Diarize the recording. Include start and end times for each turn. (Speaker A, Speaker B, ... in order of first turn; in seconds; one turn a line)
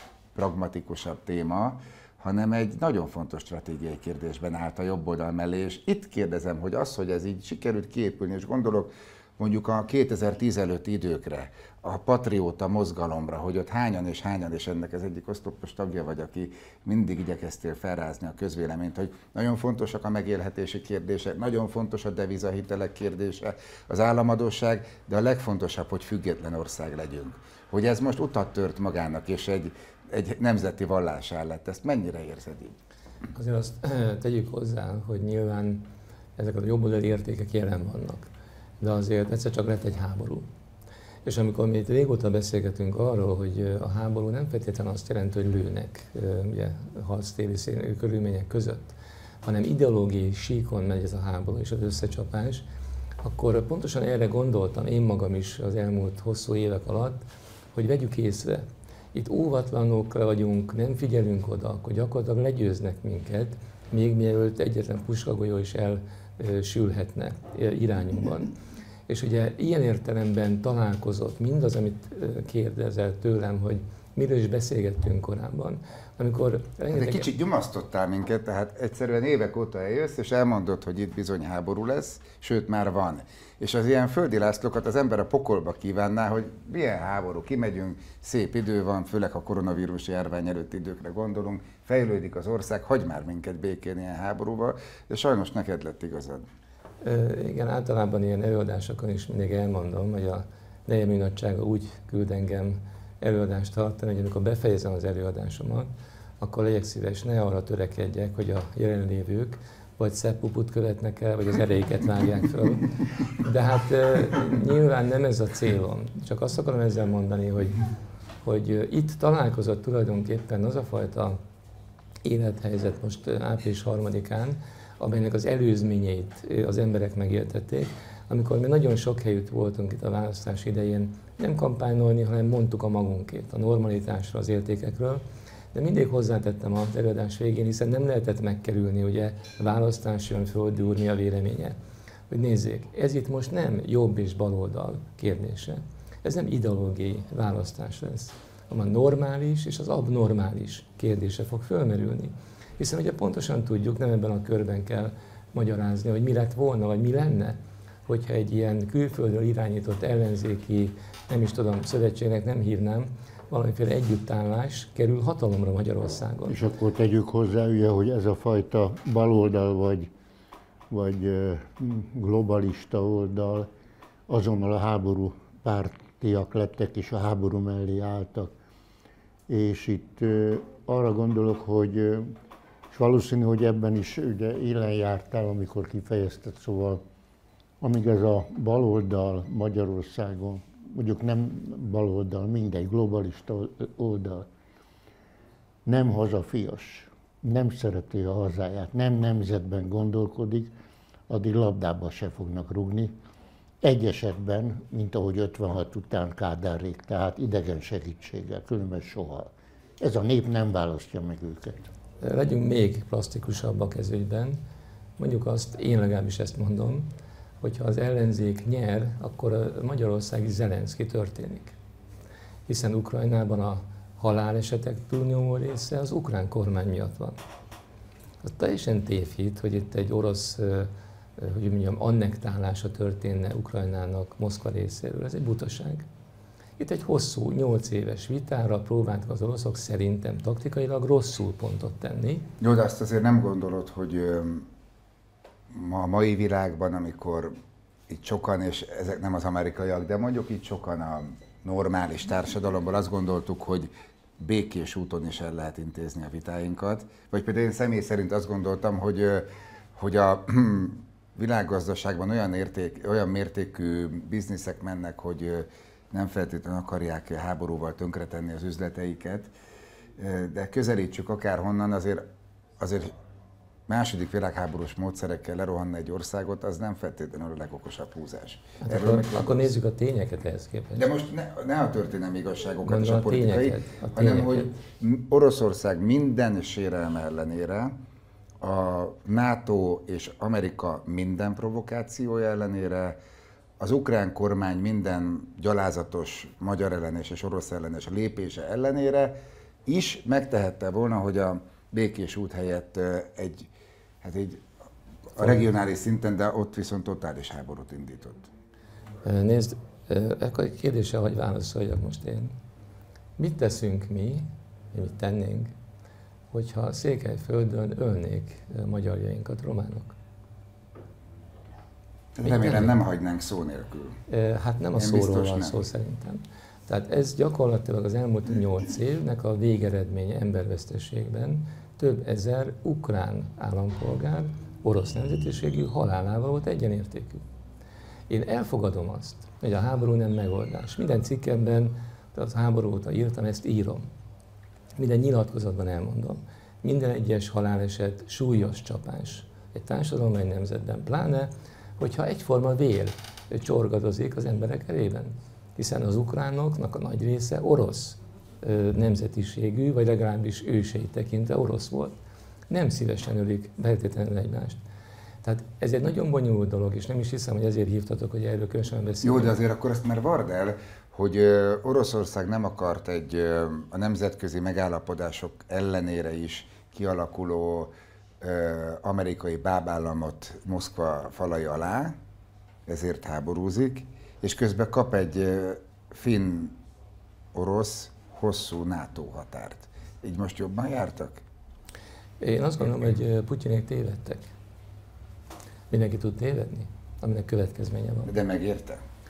Speaker A: 0.3-32.8
Speaker B: 33.3-35.9
Speaker B: 36.4-38.3
Speaker B: 38.8-40.5
Speaker B: 41.2-52.6
Speaker B: 53.2-57.2
Speaker B: 57.7-68.5
Speaker B: 69.1-77.3
Speaker A: 76.9-96.4
Speaker B: 97.0-105.9
Speaker B: 106.4-117.8
Speaker B: 118.4-121.4
Speaker B: 122.2-135.2
Speaker B: 135.7-141.8
Speaker B: 142.3-166.6
Speaker C: 166.5-170.1
Speaker C: 170.9-173.7
Speaker C: 174.3-178.5
Speaker C: 179.5-182.3
Speaker C: 182.9-187.0
Speaker C: 187.8-194.5
Speaker C: 195.8-200.7
Speaker C: 201.3-203.2
Speaker C: 203.8-211.9
Speaker B: 212.2-214.6
Speaker B: 215.2-217.1
Speaker B: 217.6-221.7
Speaker B: 222.7-227.4
Speaker B: 228.4-236.1
Speaker B: 236.8-242.5
Speaker A: 242.6-244.7
Speaker A: 245.7-247.6
Speaker A: 248.1-269.5
Speaker A: 270.2-272.2
Speaker A: 272.8-273.1
Speaker A: 273.9-279.7
Speaker B: 278.8-281.1
Speaker A: 281.0-287.9
Speaker B: 282.8-284.7
Speaker A: 288.6-293.2
Speaker A: 293.8-303.7
Speaker A: 304.2-304.6
Speaker A: 305.3-308.5
Speaker B: 305.4-305.6
Speaker B: 309.2-312.5
Speaker B: 313.4-315.7
Speaker B: 316.5-320.1
Speaker A: 322.4-324.2
Speaker B: 322.4-323.0
Speaker B: 324.3-337.4
Speaker A: 325.0-325.8
Speaker B: 338.3-344.1
Speaker B: 344.9-362.2
Speaker B: 362.7-364.8
Speaker B: 365.4-369.6
Speaker A: 369.2-382.1
Speaker A: 382.9-386.8
Speaker A: 387.5-391.4
Speaker B: 392.4-394.5
Speaker B: 395.9-398.3
Speaker A: 398.2-399.0